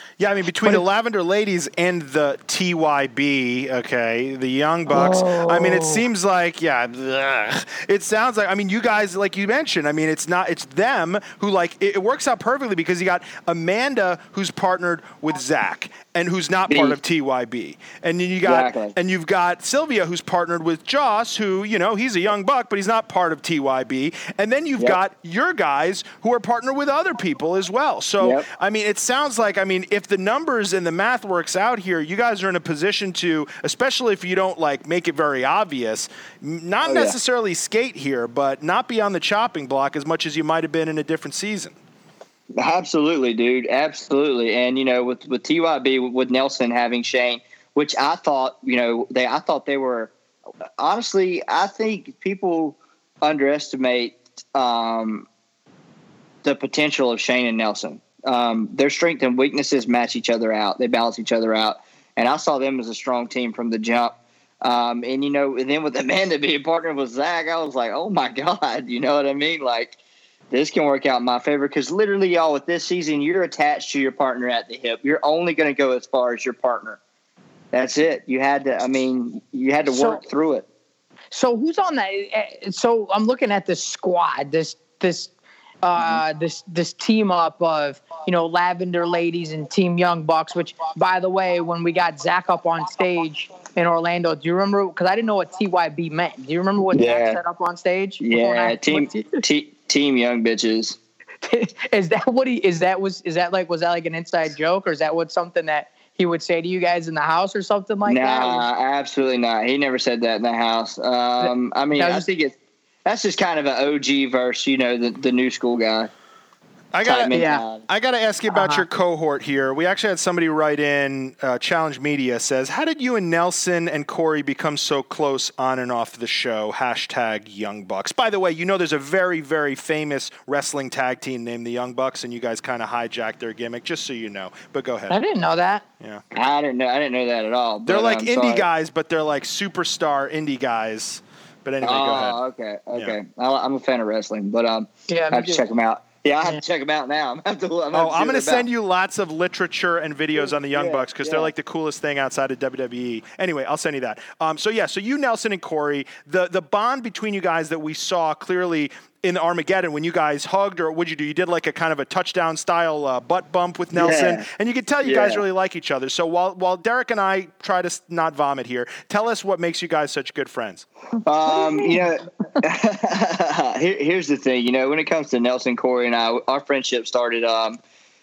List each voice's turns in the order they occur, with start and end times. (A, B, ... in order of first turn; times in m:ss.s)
0:00.2-0:41.8 A
0:16.7-0:17.0 B
0:18.4-0:18.9 B
0:28.2-0:28.4 B
0:36.8-0:37.2 B
0:42.6-0:50.1 B
0:50.8-0:55.2 B
0:56.4-1:10.0 B
1:10.5-1:17.0 B
1:17.7-1:20.6 B
1:19.8-1:20.2 C
1:21.3-1:25.3 C
1:25.8-1:39.4 C
1:36.9-1:37.4 B
1:38.2-1:41.0 B
1:41.4-1:48.7 C
1:48.0-1:52.5 B
1:51.4-1:52.3 C
1:53.0-1:56.1 B
1:56.9-2:15.2 A
1:57.0-1:57.8 B
1:57.3-1:57.6 C
1:58.5-1:58.8 C
2:15.1-2:15.8 C
2:16.3-2:18.6 B
2:17.8-2:22.4 A
2:21.8-2:28.6 B
2:25.1-2:25.6 C
2:27.9-2:50.8 A
2:30.4-2:31.5 B
2:43.9-2:44.4 B
2:45.0-2:45.4 B
2:51.2-2:57.8 B
2:51.5-2:52.1 C